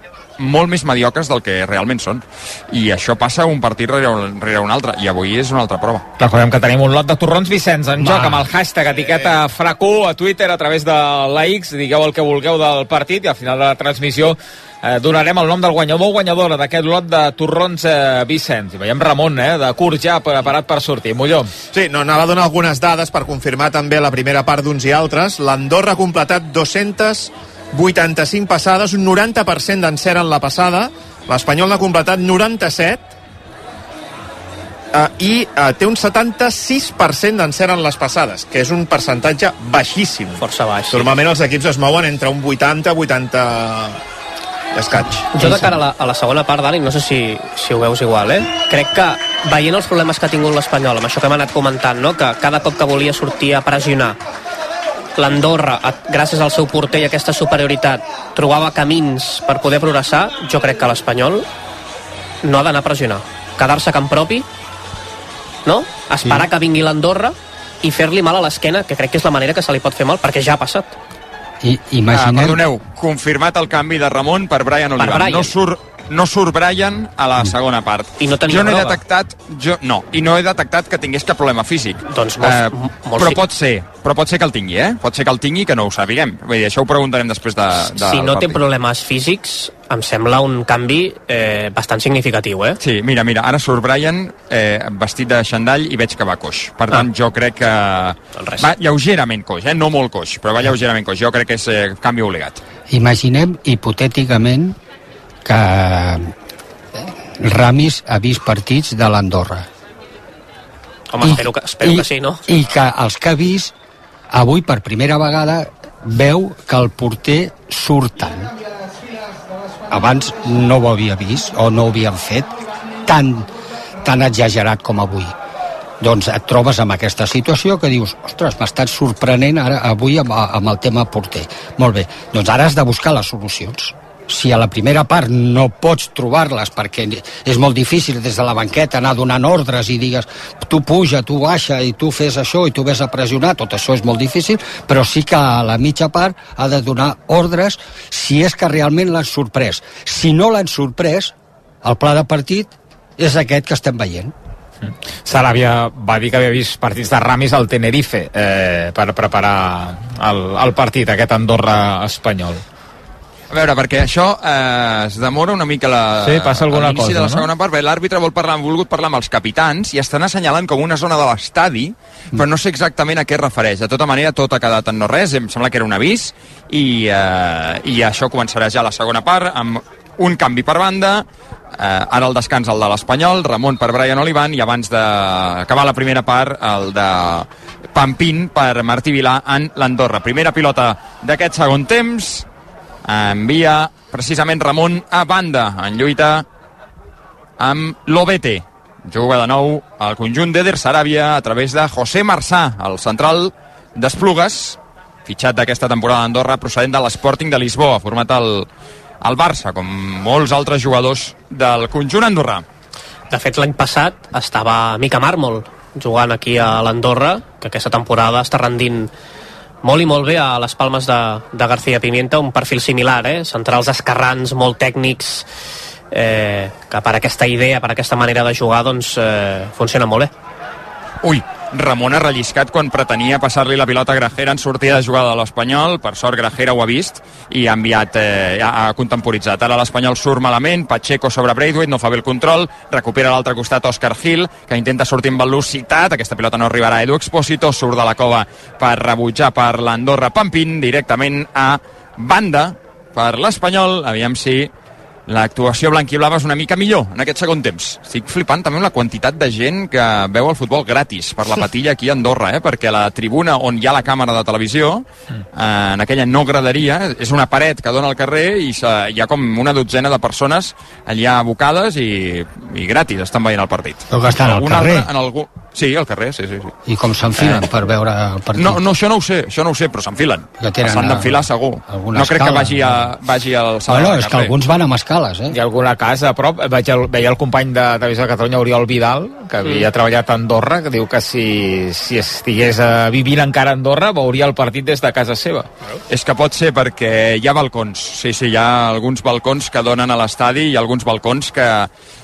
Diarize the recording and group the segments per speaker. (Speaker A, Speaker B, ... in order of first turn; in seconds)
Speaker A: 0.4-6.1, 72.1-88.6, 92.8-102.6, 163.5-181.2, 181.8-192.5, 193.1-196.5, 197.6-208.7, 209.2-212.6, 231.2-254.7, 255.3-276.7, 277.4-277.6, 278.6-284.5, 296.1-301.9
Speaker B: 6.2-21.5, 154.8-162.6, 166.2-167.5, 285.5-295.7
Speaker C: 21.7-33.0, 34.9-44.0, 44.7-45.8
Speaker D: 40.4-41.1, 45.3-54.2, 55.2-61.5, 62.4-64.5, 65.7-71.0, 75.0-75.5, 78.2-79.0, 82.1-83.4, 87.8-92.8, 98.4-98.7, 111.1-112.4, 213.3-219.1, 219.8-225.5, 226.1-230.3
Speaker E: 71.6-72.6, 102.9-104.8, 105.5-106.3, 107.4-109.7, 111.2-113.7, 114.3-118.5, 119.9-122.5, 123.0-123.5, 124.0-125.3, 126.0-154.3, 274.1-275.1, 276.9-278.8, 280.6-281.4, 281.9-283.1, 283.9-285.6